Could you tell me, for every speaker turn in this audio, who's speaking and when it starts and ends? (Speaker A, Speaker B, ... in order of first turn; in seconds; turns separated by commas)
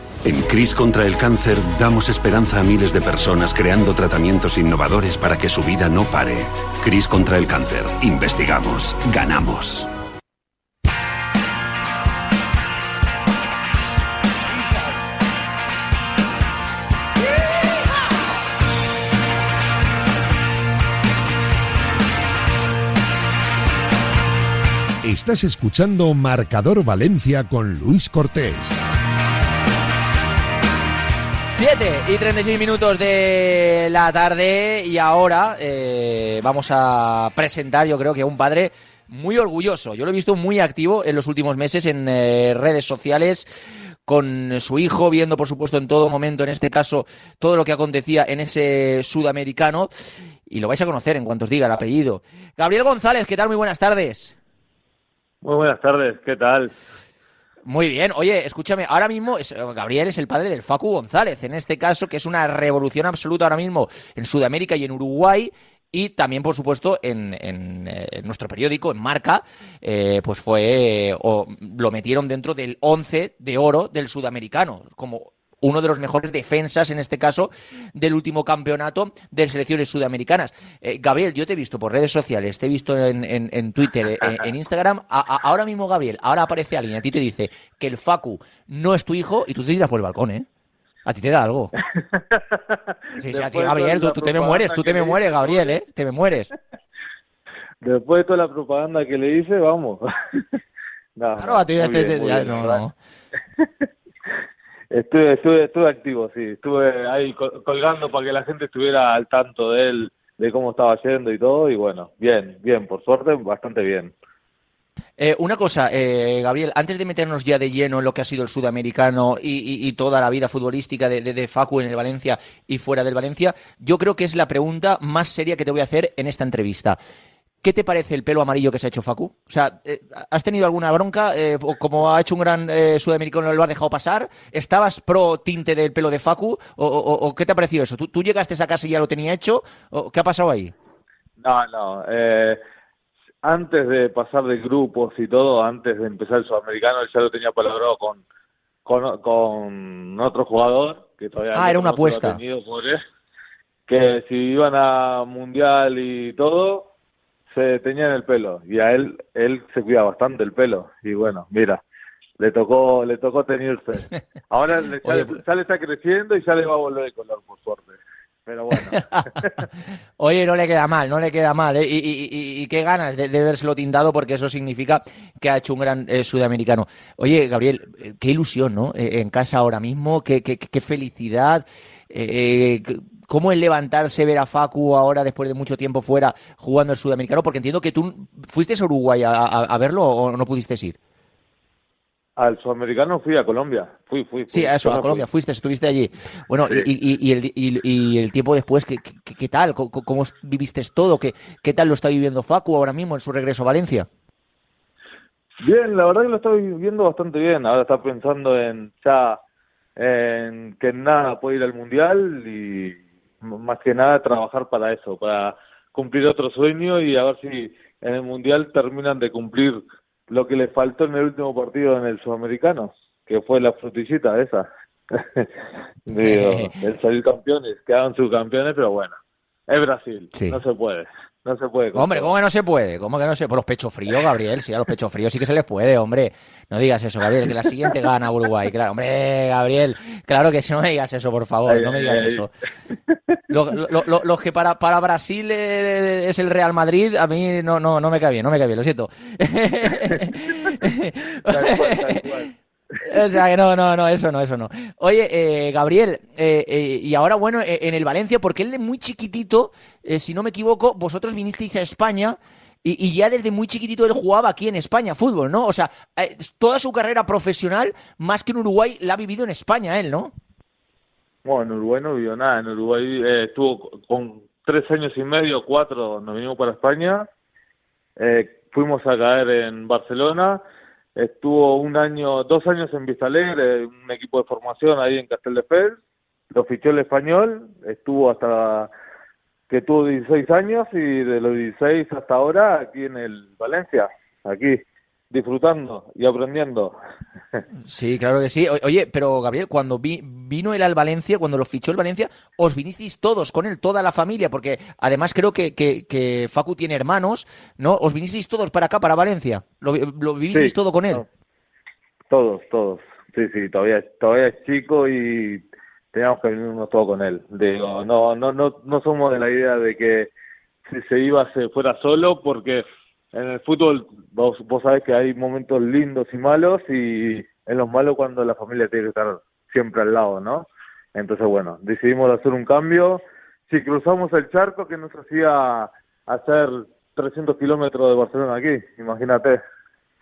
Speaker A: 0.2-9.9, Speaker B: 25.0-28.8, Speaker C: 31.5-43.5, Speaker C: 44.1-49.9, Speaker C: 50.5-54.4, Speaker D: 55.4-56.7, Speaker C: 57.7-90.5, Speaker C: 91.1-91.7, Speaker C: 93.2-96.5, Speaker D: 93.2-95.8, Speaker D: 97.8-100.0, Speaker D: 101.2-102.8, Speaker C: 101.4-102.9, Speaker D: 104.9-114.1, Speaker C: 115.2-127.0, Speaker C: 127.6-140.7, Speaker D: 141.4-142.6, Speaker D: 143.4-148.2, Speaker D: 148.8-153.0, Speaker C: 151.5-152.4, Speaker D: 153.9-156.9, Speaker D: 157.5-161.8, Speaker D: 162.4-169.5, Speaker C: 165.0-165.3, Speaker C: 168.9-169.3, Speaker C: 170.2-191.0, Speaker D: 192.4-195.3, Speaker C: 194.5-204.1, Speaker D: 205.6-209.4, Speaker D: 210.0-225.5, Speaker D: 226.1-229.2, Speaker C: 226.2-226.8, Speaker D: 229.7-232.3, Speaker C: 231.9-242.5, Speaker D: 241.7-242.5, Speaker C: 243.5-252.3, Speaker D: 251.5-252.5, Speaker C: 253.0-270.3, Speaker D: 271.4-277.3, Speaker D: 278.2-280.6, Speaker D: 281.2-286.0, Speaker D: 286.5-288.9, Speaker D: 289.7-294.8, Speaker D: 295.3-297.0, Speaker C: 297.9-311.2, Speaker D: 310.5-311.3, Speaker D: 312.3-320.3, Speaker D: 320.9-339.6